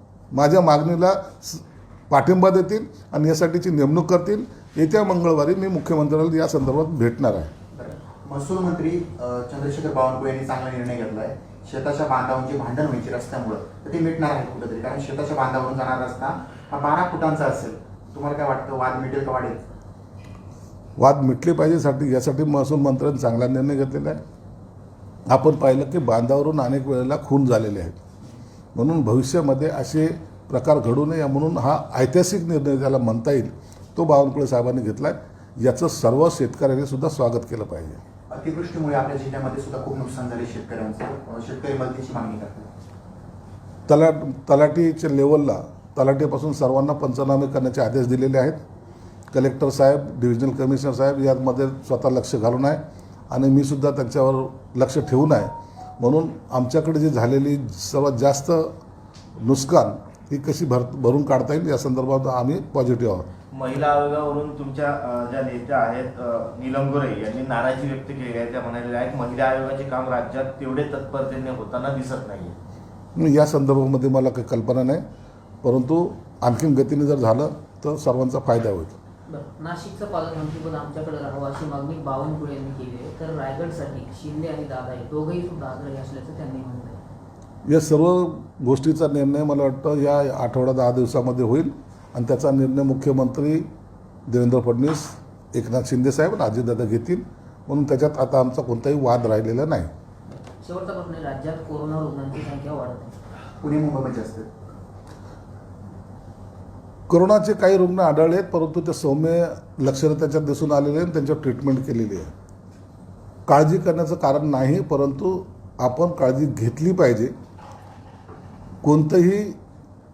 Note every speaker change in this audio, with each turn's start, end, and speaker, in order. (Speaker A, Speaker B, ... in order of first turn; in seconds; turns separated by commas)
Speaker A: 0.3-7.5, Speaker B: 7.7-19.6, Speaker A: 21.0-24.2, Speaker A: 25.3-28.0, Speaker A: 28.8-38.0, Speaker B: 38.3-42.7, Speaker A: 43.9-48.6, Speaker A: 49.3-58.7, Speaker A: 59.4-63.3, Speaker C: 63.5-72.5, Speaker A: 73.2-75.0, Speaker A: 75.6-79.0, Speaker D: 79.3-87.0, Speaker A: 87.7-93.7, Speaker A: 94.3-99.9, Speaker D: 100.3-103.2, Speaker B: 103.6-104.5, Speaker A: 107.1-112.3, Speaker A: 113.5-117.3, Speaker A: 118.8-119.6